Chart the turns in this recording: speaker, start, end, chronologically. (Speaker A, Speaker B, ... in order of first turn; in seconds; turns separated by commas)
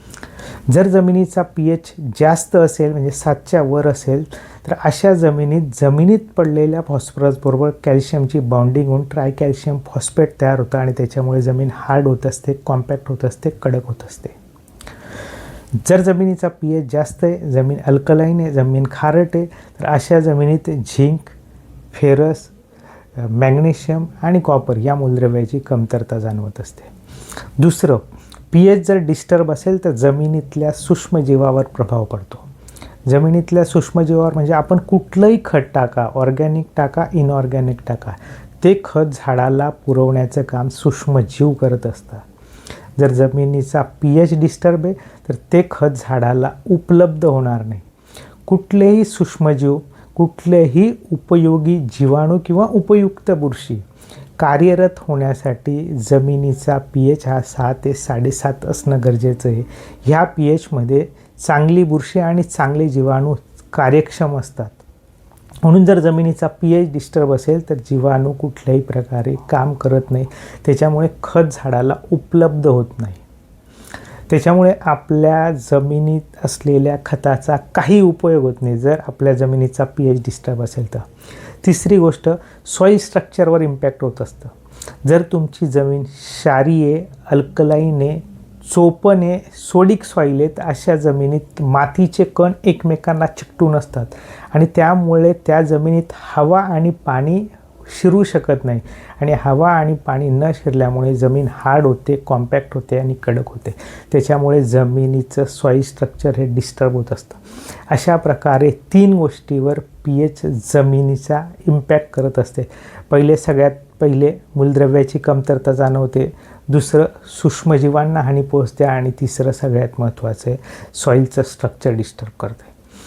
Speaker A: 0.7-14.3, Speaker A: 15.8-21.3, Speaker A: 21.9-22.5, Speaker A: 23.2-26.9, Speaker A: 27.6-32.5, Speaker A: 33.1-42.2, Speaker A: 43.0-47.8, Speaker A: 48.5-53.8, Speaker A: 54.4-64.8, Speaker A: 65.6-73.2, Speaker A: 74.3-81.0, Speaker A: 81.6-84.5, Speaker A: 85.0-122.7